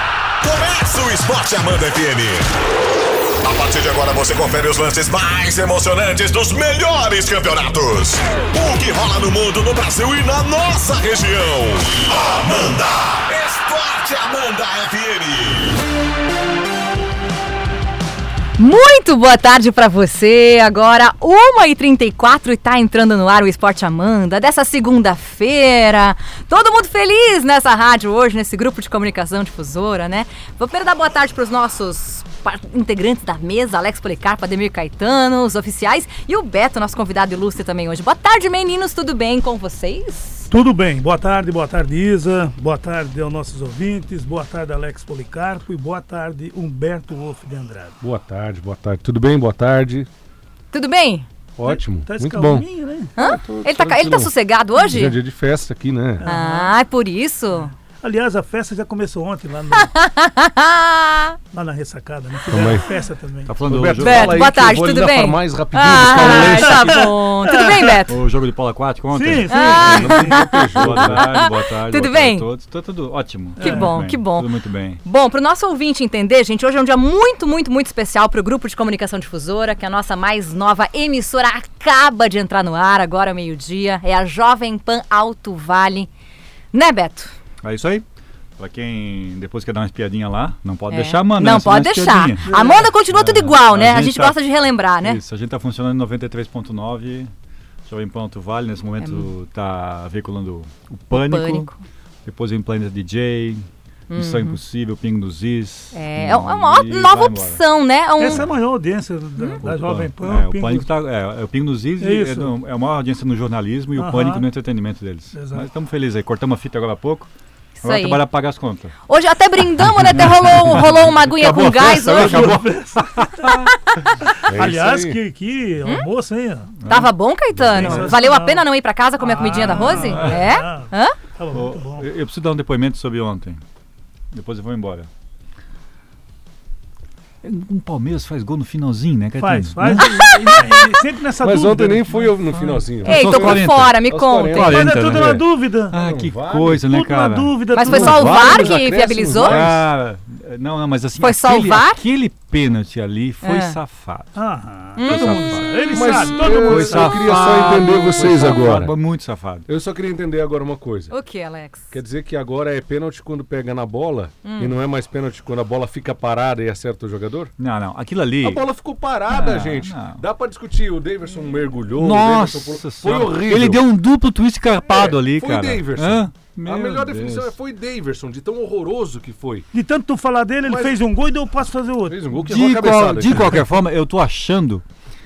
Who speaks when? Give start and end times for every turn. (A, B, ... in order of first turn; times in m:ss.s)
0:00.4-0:02.5 A
0:03.4-0:15.7 A
0:18.6-0:40.5 B
0:40.5-0:48.0 C
0:48.0-0:50.1 D
0:50.7-0:51.3 B
0:51.6-0:56.2 D
0:51.6-0:53.1 C
0:53.2-0:55.2 B
0:56.2-0:56.7 C
0:56.2-0:57.7 B
0:58.0-0:59.9 C
0:59.7-1:01.4 B
1:01.5-1:03.5 C
1:02.5-1:02.8 D
1:03.4-1:04.5 E
1:03.6-1:07.1 D
1:04.0-1:08.2 B
1:06.1-1:08.0 C
1:08.1-1:15.0 E
1:09.1-1:10.4 C
1:09.5-1:12.4 B
1:09.8-1:11.4 D
1:13.6-1:13.9 C
1:13.6-1:14.5 B
1:15.0-1:26.1 B
1:26.7-1:27.3 B
1:27.6-1:28.0 E
1:28.6-1:34.4 E
1:30.9-1:35.2 B
1:32.4-1:32.9 C
1:35.0-1:37.3 E
1:37.8-1:41.7 E
1:39.0-1:39.3 B
1:41.1-1:41.8 B
1:42.2-1:47.6 E
1:44.1-1:44.6 B
1:45.9-1:48.4 B
1:48.2-1:50.9 C
1:49.6-1:57.3 E
1:52.0-1:52.5 C
1:54.0-1:54.4 C
1:55.3-1:55.7 C
1:57.8-1:58.2 B
1:57.8-1:59.0 E
1:59.1-2:02.5 B
1:59.8-2:02.7 E
2:01.4-2:02.8 D
2:02.1-2:03.0 C
2:03.4-2:03.7 E
2:03.8-2:04.4 B
2:04.4-2:05.2 D
2:04.5-2:06.7 C
2:06.8-2:07.1 E
2:06.8-2:11.2 B
2:07.6-2:08.1 E
2:07.7-2:08.6 C
2:09.2-2:12.1 C
2:09.7-2:10.4 E
2:11.5-2:13.6 E
2:14.3-2:15.1 E
2:17.4-2:20.2 E
2:19.4-2:22.6 C
2:20.0-2:20.9 B
2:21.4-2:25.2 D
2:22.6-2:24.0 E
2:23.0-2:24.7 B
2:24.5-2:28.7 E
2:24.6-2:25.9 C
2:25.9-2:26.8 D
2:26.8-2:28.4 C
2:27.7-2:29.6 B
2:27.9-2:29.9 D
2:29.4-2:34.3 E
2:31.2-2:32.0 B
2:33.4-2:33.8 B
2:34.3-2:37.4 C
2:35.0-2:35.8 B
2:35.0-2:35.7 E
2:35.9-2:38.9 D
2:36.4-2:39.7 E
2:39.7-2:41.1 D
2:41.1-2:41.9 B
2:41.9-2:47.5 D
2:44.4-2:44.8 B
2:47.6-2:48.6 E
2:48.4-2:53.8 D
2:49.3-2:50.2 E
2:51.9-2:57.5 E
2:54.8-2:59.7 D
2:59.7-3:02.2 C
3:00.6-3:01.0 D
3:02.1-3:03.6 D
3:02.4-3:04.8 E